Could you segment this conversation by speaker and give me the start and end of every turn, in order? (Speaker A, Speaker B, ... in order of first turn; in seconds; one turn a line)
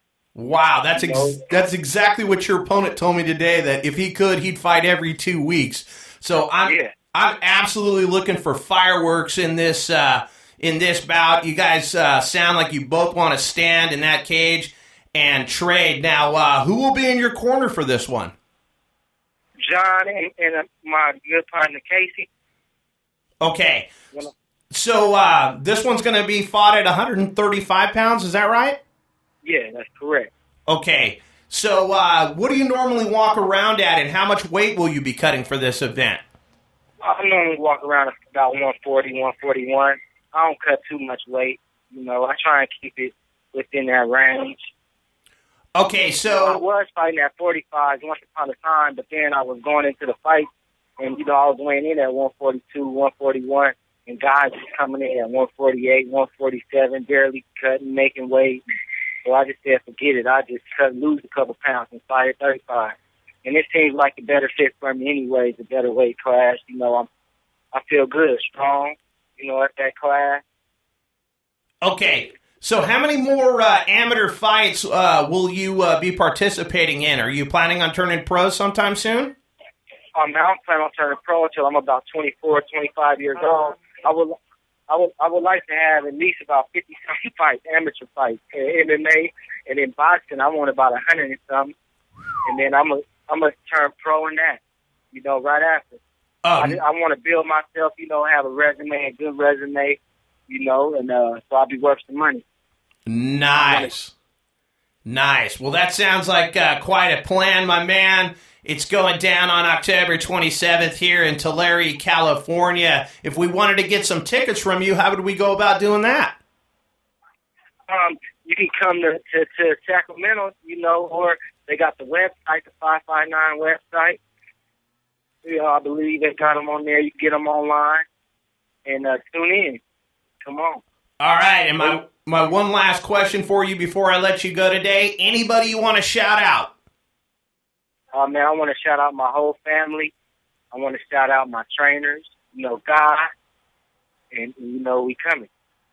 Speaker A: 0.3-18.3
Speaker B: 0.9-1.4
Speaker B: 6.6-6.9
Speaker B: 19.6-22.3
Speaker A: 23.4-23.9
Speaker A: 24.7-28.8
Speaker B: 29.4-30.3
Speaker A: 30.7-36.2
Speaker B: 37.0-44.7
Speaker A: 45.8-46.6
Speaker B: 46.3-50.5
Speaker B: 51.0-58.6
Speaker B: 59.2-67.1
Speaker B: 67.7-70.4
Speaker A: 71.8-79.3
Speaker B: 80.2-84.4
Speaker B: 84.9-91.8
Speaker B: 92.5-94.6
Speaker B: 95.1-96.0
Speaker A: 96.4-96.8
Speaker B: 96.6-102.4
Speaker A: 103.1-104.1
Speaker B: 103.6-103.9
Speaker A: 105.0-116.4
Speaker B: 117.9-124.2
Speaker B: 125.4-128.0
Speaker B: 128.9-129.8
Speaker B: 130.4-130.8
Speaker A: 131.2-136.7
Speaker B: 138.1-140.1
Speaker B: 140.7-143.3
Speaker B: 144.3-145.5